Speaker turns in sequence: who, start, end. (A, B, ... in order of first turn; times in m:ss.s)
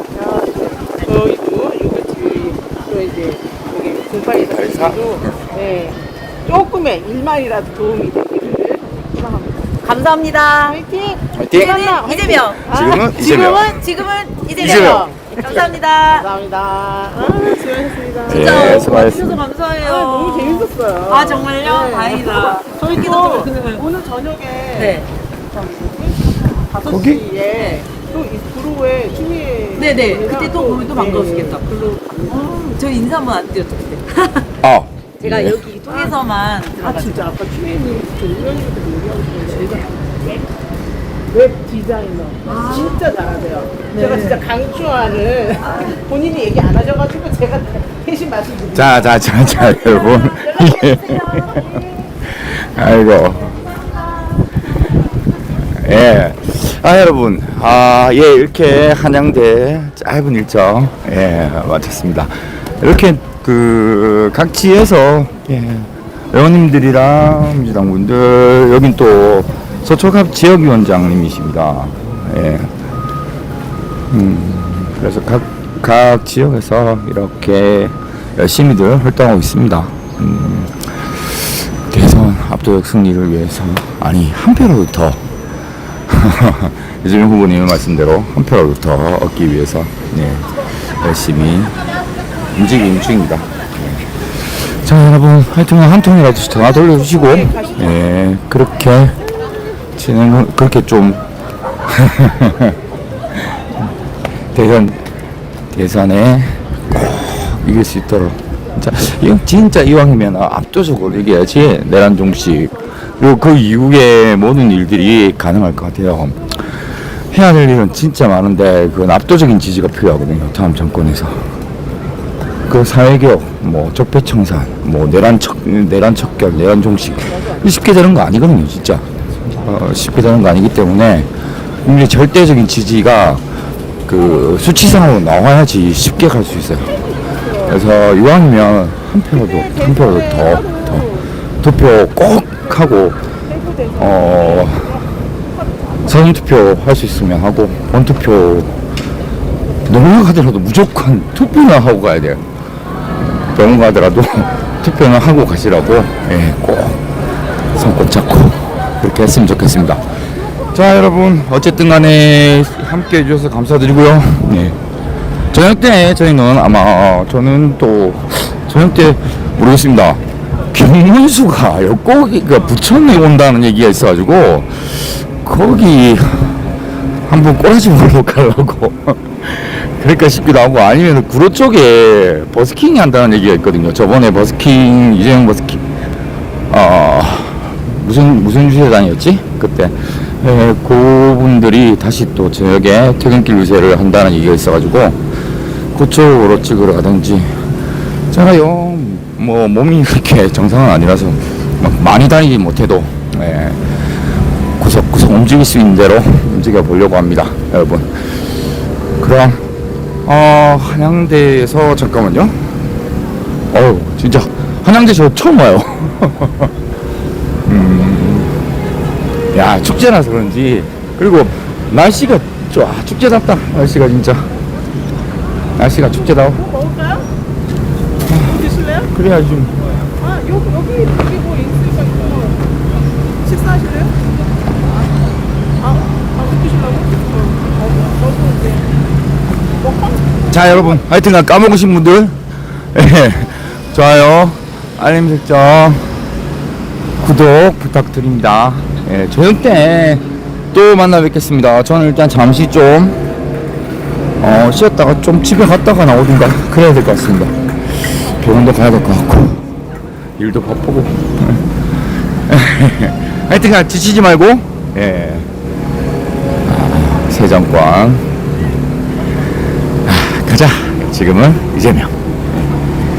0:00.1-0:09.7 A
0:04.4-0:05.4 B
0:09.8-0:10.8 C
0:10.6-0:13.6 A
0:11.4-0:11.8 B
0:11.5-0:16.3 C
0:12.7-0:13.8 B
0:14.6-0:18.9 A
0:14.6-0:15.1 B
0:18.3-0:19.4 B
0:18.3-0:23.8 C
0:19.8-0:32.7 A
0:24.8-0:25.1 C
0:26.8-0:27.2 B
0:27.5-0:27.8 C
0:29.8-0:31.7 C
0:32.3-0:34.5 C
0:34.6-0:35.6 B
0:35.2-0:37.3 C
0:35.9-0:36.2 A
0:36.8-0:40.4 A
0:41.3-0:49.2 A
0:42.5-0:43.0 C
0:43.9-0:44.4 C
0:45.6-0:46.0 C
0:48.7-0:51.7 B
0:52.2-0:53.6 B
0:55.7-1:12.7 B
1:14.1-1:25.3 B
1:26.1-1:31.9 B
1:32.5-1:39.2 B
1:36.7-1:38.1 A
1:40.0-1:41.2 B
1:41.8-1:42.8 B
1:43.3-1:43.9 B
1:44.4-1:45.0 B
1:45.7-1:56.5 B
1:57.2-2:01.5 B
2:02.7-2:11.3 B
2:07.2-2:07.7 A
2:11.8-2:13.4 B
2:14.1-2:17.0 B
2:16.9-2:17.8 A
2:17.6-2:21.1 B
2:19.4-2:21.3 A
2:21.6-2:23.2 B
2:23.5-2:26.1 A
2:24.0-2:25.0 B
2:26.0-2:28.8 B
2:29.8-2:32.4 B
2:33.4-2:37.2 B
2:37.7-2:40.1 B
2:40.7-2:44.8 B
2:45.5-2:56.6 B
2:57.3-3:05.9 B
3:06.7-3:15.3 B
3:15.9-3:17.8 B
3:18.3-3:24.1 B
3:24.8-3:28.7 B
3:29.2-3:29.6 B
3:30.3-3:32.6 B
3:33.7-3:36.7 B
3:37.7-3:38.5 B
3:39.5-3:44.5 B
3:45.8-3:46.6 B
3:46.0-3:47.3 A
3:48.3-3:49.8 B
3:48.3-3:49.1 A
3:50.2-3:54.2 A
3:55.8-3:59.1 A
3:59.8-4:00.9 A
4:00.5-4:02.4 B
4:02.9-4:06.1 B
4:07.2-4:13.2 B
4:14.4-4:19.6 B
4:20.4-4:21.8 B
4:22.5-4:25.5 B
4:26.6-4:28.3 B
4:30.0-4:32.8 B